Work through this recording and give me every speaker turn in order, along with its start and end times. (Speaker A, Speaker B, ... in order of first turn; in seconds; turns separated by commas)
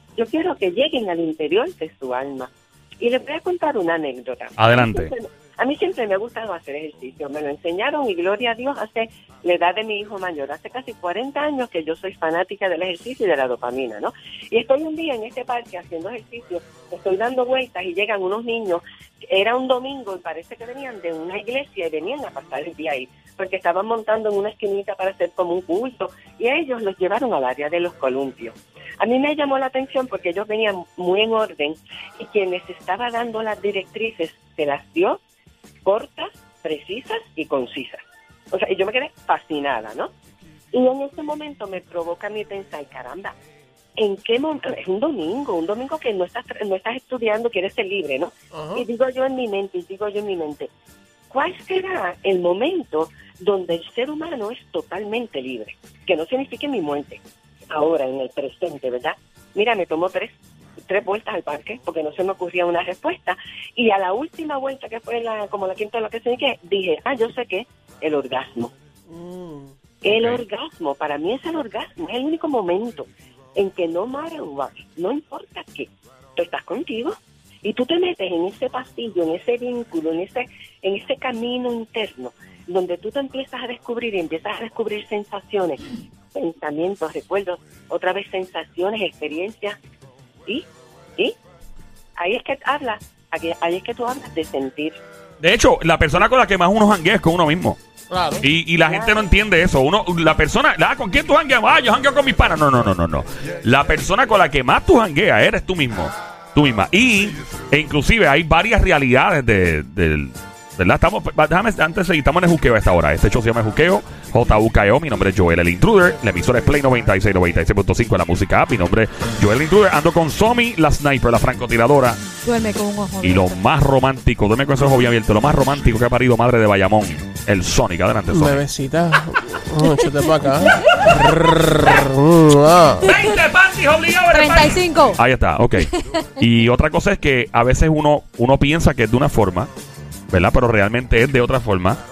Speaker A: 0.2-35.2, Speaker B: 4.6-5.1, Speaker A: 35.9-38.0, Speaker A: 38.5-40.1, Speaker A: 40.7-43.4, Speaker A: 44.0-50.7, Speaker A: 51.3-60.3, Speaker A: 60.9-68.7, Speaker C: 69.1-69.7, Speaker A: 70.0-85.8, Speaker B: 70.1-70.4, Speaker A: 86.3-89.8, Speaker A: 90.5-91.4, Speaker A: 92.2-95.0, Speaker B: 95.4-97.8, Speaker C: 98.1-98.4, Speaker B: 98.4-122.2, Speaker A: 98.9-99.2, Speaker D: 122.4-123.5, Speaker B: 123.2-128.6, Speaker C: 128.3-133.1, Speaker D: 129.8-131.1, Speaker B: 133.0-139.7, Speaker D: 133.1-133.3, Speaker D: 134.3-135.2, Speaker B: 140.3-142.0